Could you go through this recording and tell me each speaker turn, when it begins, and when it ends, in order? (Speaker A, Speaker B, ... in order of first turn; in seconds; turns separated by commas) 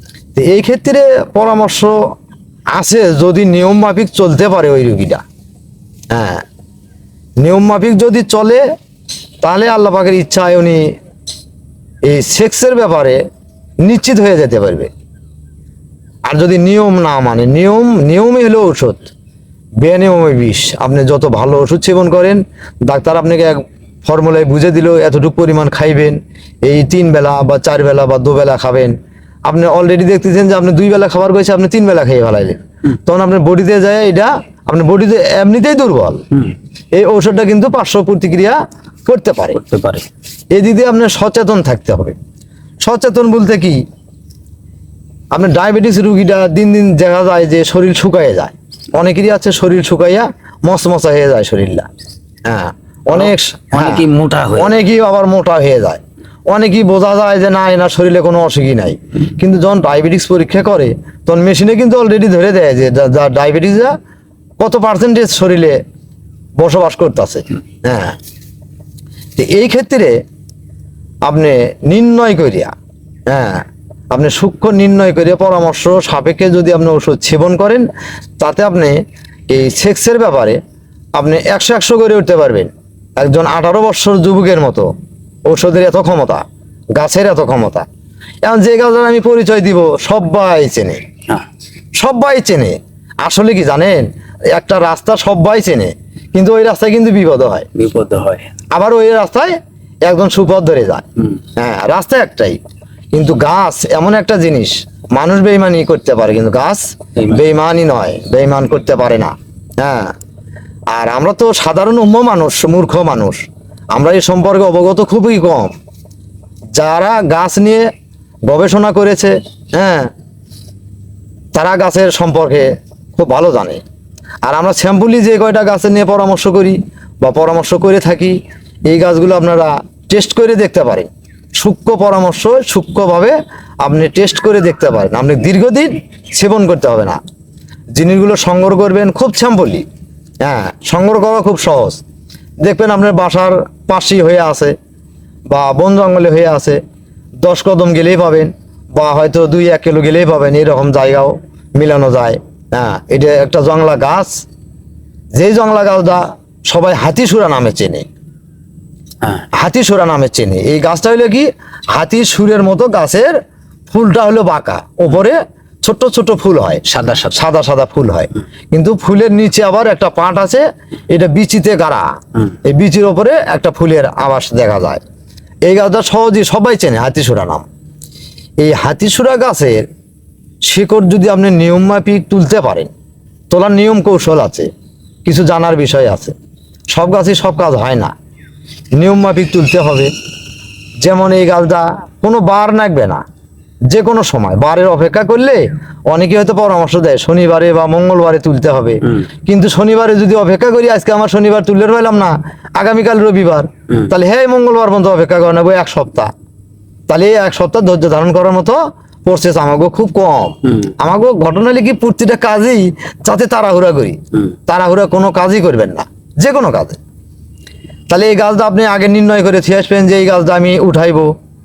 Speaker A: 0.3-1.9, Speaker A: 2.7-5.2, Speaker A: 6.1-6.4, Speaker A: 7.4-8.6, Speaker A: 9.4-10.9, Speaker A: 12.0-13.2, Speaker A: 13.8-14.9, Speaker A: 16.3-19.1, Speaker A: 19.8-28.9, Speaker A: 29.5-36.2, Speaker A: 36.9-39.6, Speaker B: 39.5-40.0, Speaker A: 40.5-42.1, Speaker A: 42.8-43.8, Speaker A: 45.3-51.9, Speaker A: 52.5-54.0, Speaker B: 53.1-54.8, Speaker A: 54.6-63.9, Speaker A: 64.6-65.8, Speaker A: 66.6-68.2, Speaker A: 69.3-70.1, Speaker A: 71.2-72.7, Speaker A: 73.3-77.9, Speaker A: 78.4-80.6, Speaker A: 81.2-84.9, Speaker A: 85.5-86.4, Speaker A: 87.0-87.8, Speaker A: 88.4-91.0, Speaker A: 92.0-97.7, Speaker B: 97.7-98.5, Speaker A: 98.7-99.5, Speaker A: 100.0-101.0, Speaker A: 101.6-102.6, Speaker A: 103.1-110.1, Speaker B: 107.2-107.4, Speaker A: 110.9-113.4, Speaker A: 113.9-115.7, Speaker A: 116.8-117.8, Speaker A: 118.5-120.1, Speaker A: 121.5-123.8, Speaker A: 124.4-128.4, Speaker A: 128.9-137.2, Speaker A: 137.9-139.8, Speaker A: 140.4-142.0, Speaker A: 142.6-144.7, Speaker A: 145.5-146.8, Speaker A: 147.4-154.3, Speaker A: 155.3-158.1, Speaker A: 159.6-163.3, Speaker A: 163.9-166.8, Speaker B: 166.8-167.4, Speaker A: 167.3-172.1, Speaker A: 172.7-175.0, Speaker A: 175.7-177.7, Speaker A: 178.6-179.8, Speaker A: 180.7-182.9, Speaker A: 183.5-184.7, Speaker A: 185.2-186.3, Speaker A: 186.9-188.1, Speaker A: 188.9-190.1, Speaker A: 191.0-193.2, Speaker A: 193.9-206.3, Speaker A: 207.1-217.0, Speaker A: 218.1-221.3